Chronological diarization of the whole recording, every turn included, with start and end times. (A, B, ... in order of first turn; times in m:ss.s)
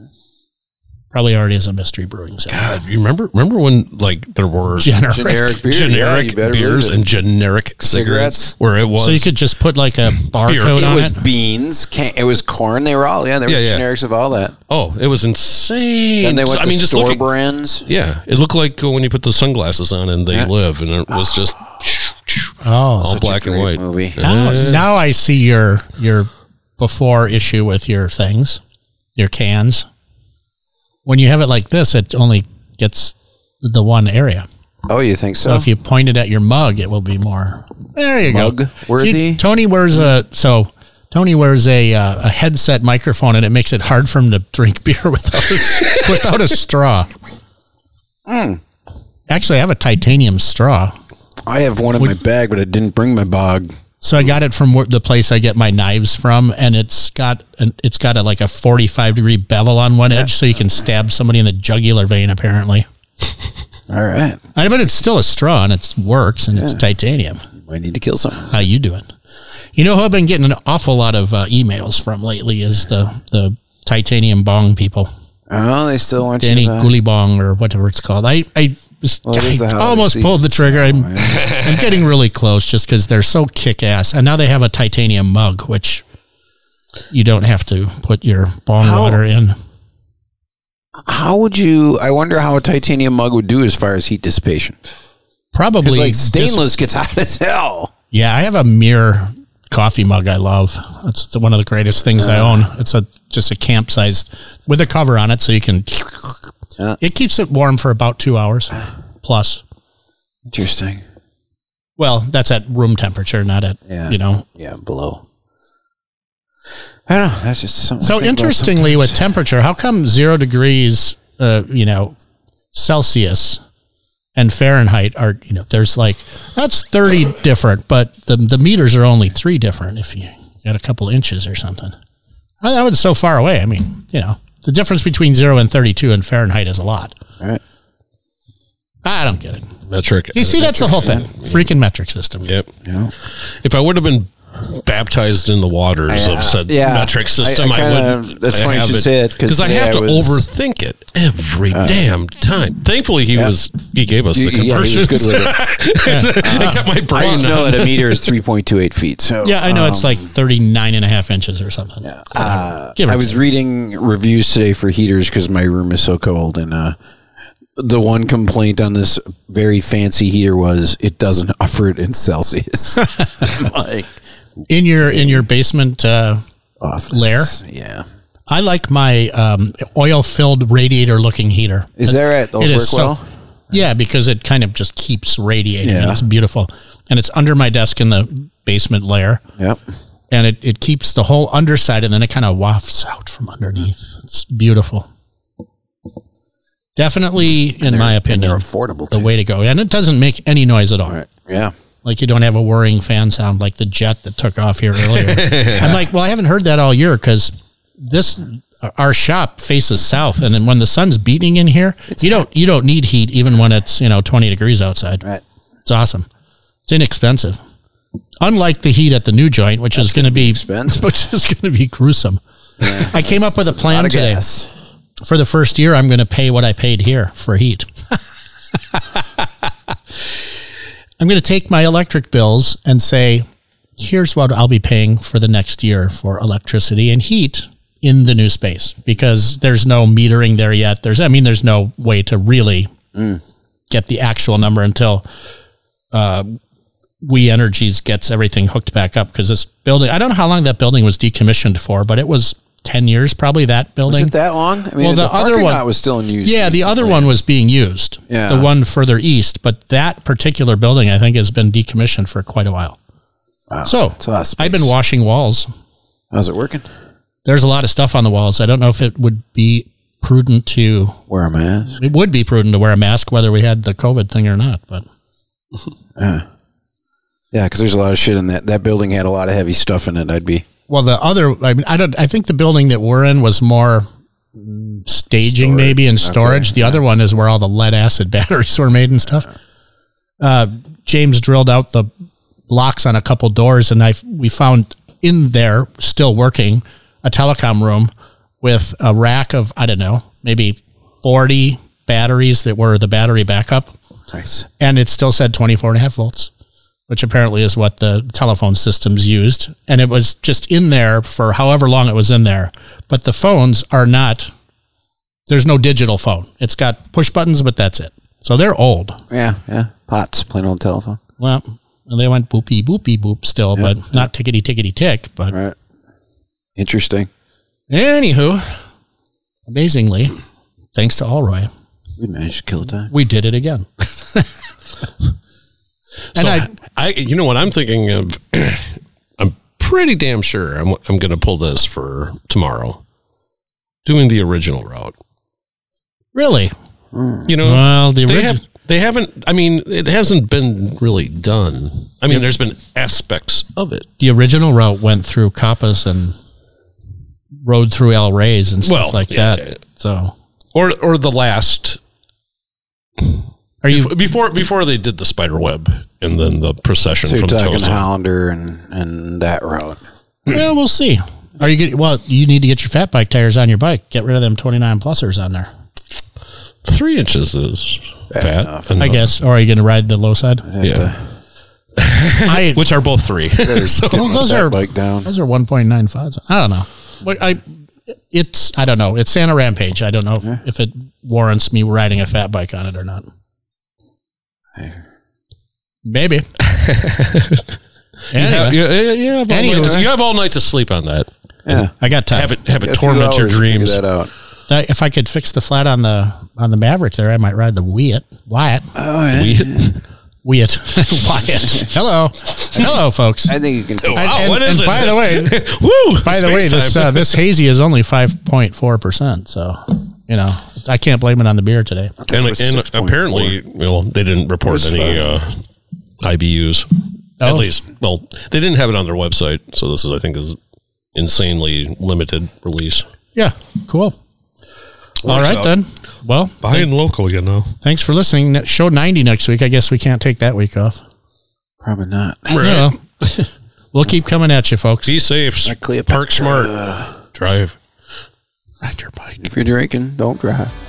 0:01.1-0:02.7 A
0:02.5-0:09.3 B
0:04.8-0:05.5 A
0:05.1-0:07.0 C
0:07.8-0:08.5 C
0:09.0-0:11.2 A
0:10.4-0:11.0 B
0:10.8-0:14.5 C
0:13.4-0:13.8 B
0:14.7-0:17.2 B
0:16.2-0:17.9 C
0:17.8-0:24.8 B
0:22.6-0:23.2 A
0:23.0-0:24.8 C
0:24.2-0:28.6 A
0:29.2-0:29.8 A
0:31.0-0:34.5 A
0:34.9-0:35.7 C
0:35.4-0:47.1 A
0:38.3-0:39.4 C
0:48.2-0:48.6 C
0:49.3-0:50.9 A
0:51.4-0:53.7 C
0:54.0-1:02.8 A
1:03.9-1:04.4 C
1:04.5-1:07.4 A
1:06.5-1:06.8 C
1:07.6-1:08.6 C
1:08.5-1:09.1 A
1:09.7-1:15.1 A
1:15.5-1:16.9 C
1:16.4-1:26.0 A
1:19.2-1:21.4 C
1:27.1-1:29.6 A
1:28.8-1:29.2 C
1:31.0-1:34.8 C
1:35.5-1:36.6 A
1:35.8-1:37.9 C
1:38.1-1:49.6 A
1:42.2-1:42.6 C
1:50.5-1:51.0 C
1:52.0-1:54.4 A
1:53.9-1:55.2 C
1:57.1-1:59.1 C
1:58.0-2:02.2 A
2:02.7-2:03.6 A
2:04.4-2:11.9 A
2:12.6-2:17.2 A
2:19.0-2:19.7 A
2:19.9-2:21.6 B
2:20.3-2:22.5 A
2:22.8-2:23.1 C
2:23.3-2:38.2 B
2:26.1-2:30.4 C
2:31.7-2:32.0 C
2:34.3-2:35.6 C
2:36.0-2:36.8 A
2:36.4-2:40.3 C
2:39.4-2:43.4 A
2:42.0-2:47.0 C
2:47.8-2:55.4 C
2:54.7-2:56.4 A
2:56.8-2:58.0 C
2:57.1-2:57.5 A
2:58.5-3:03.1 A
3:02.0-3:03.2 C
3:03.7-3:09.4 A
3:05.8-3:06.2 C
3:10.3-3:15.1 A
3:17.0-3:21.2 A
3:17.8-3:19.3 C
3:21.1-3:21.7 C
3:22.0-3:35.2 A
3:25.2-3:25.9 B
3:35.8-3:36.3 A
3:36.8-3:37.6 A
3:38.4-3:44.4 A
3:39.9-3:41.0 C
3:42.8-3:44.7 C
3:45.2-3:48.2 A
3:48.9-3:49.2 A
3:51.2-3:53.4 A
3:54.0-4:02.9 A
4:03.9-4:05.2 A
4:06.1-4:06.6 A
4:07.2-4:14.3 A
4:14.1-4:17.3 C
4:15.0-4:15.8 A
4:16.4-4:23.0 A
4:18.3-4:18.7 C
4:23.7-4:24.9 C
4:23.8-4:25.7 A
4:26.3-4:26.8 C
4:27.4-4:31.2 A
4:31.3-4:32.0 C
4:32.0-4:35.0 A
4:36.2-4:36.4 C
4:37.5-4:40.6 C
4:40.9-4:49.5 A
4:45.5-4:47.0 C
4:50.4-4:52.1 A
4:52.7-5:03.9 A
5:04.3-5:04.7 C
5:04.8-5:06.5 A
5:07.1-5:14.5 A
5:15.5-5:19.2 A
5:19.3-5:21.2 C
5:21.4-5:25.6 A
5:23.8-5:24.3 C
5:25.5-5:25.8 C
5:26.8-5:27.3 C
5:27.9-5:28.8 A
5:29.7-5:30.4 A
5:30.9-5:31.7 A
5:32.2-5:33.1 C
5:33.1-5:34.5 A
5:36.3-5:43.0 B
5:36.4-5:36.7 A
5:44.0-5:45.1 B
5:46.3-5:46.7 A
5:47.1-5:47.5 C
5:47.4-5:54.0 B
5:47.6-5:48.6 A
5:54.2-5:56.3 A
5:57.6-6:00.3 A
5:58.8-5:59.8 B
6:00.7-6:02.0 B
6:03.8-6:04.1 A
6:03.9-6:08.0 B
6:07.2-6:10.0 C
6:10.4-6:15.7 A
6:16.8-6:19.3 B
6:18.3-6:19.0 C
6:19.0-6:20.6 A
6:20.6-6:21.2 C
6:20.8-6:21.1 B
6:22.0-6:24.4 B
6:22.4-6:22.8 A
6:23.6-6:25.3 C
6:24.1-6:33.2 A
6:36.0-6:36.5 A
6:36.6-6:37.6 B
6:38.3-6:38.8 A
6:38.3-6:44.0 B
6:39.5-6:40.0 A
6:39.7-6:40.0 C
6:41.6-6:41.9 C
6:42.0-6:42.6 A
6:42.8-6:44.3 C
6:44.7-6:48.9 A
6:48.9-6:49.9 C
6:49.3-6:50.0 B
6:50.4-6:53.6 A
6:51.6-6:51.9 C
6:53.5-6:54.4 C
6:54.0-6:57.4 B
6:54.1-6:55.6 A
6:56.2-7:02.1 A
7:02.2-7:03.6 C
7:02.3-7:05.5 B
7:04.7-7:05.3 C
7:06.2-7:06.9 B
7:07.4-7:07.7 A
7:07.4-7:10.6 B
7:11.1-7:13.0 B
7:13.3-7:14.2 A
7:15.2-7:15.7 B
7:15.2-7:16.9 A
7:16.6-7:17.7 B
7:17.8-7:21.0 A
7:21.8-7:22.5 C
7:22.5-7:22.9 B
7:22.5-7:25.1 A
7:25.0-7:26.7 B
7:25.6-7:27.2 C
7:27.3-7:27.8 B
7:28.8-7:29.4 A
7:29.4-7:30.7 C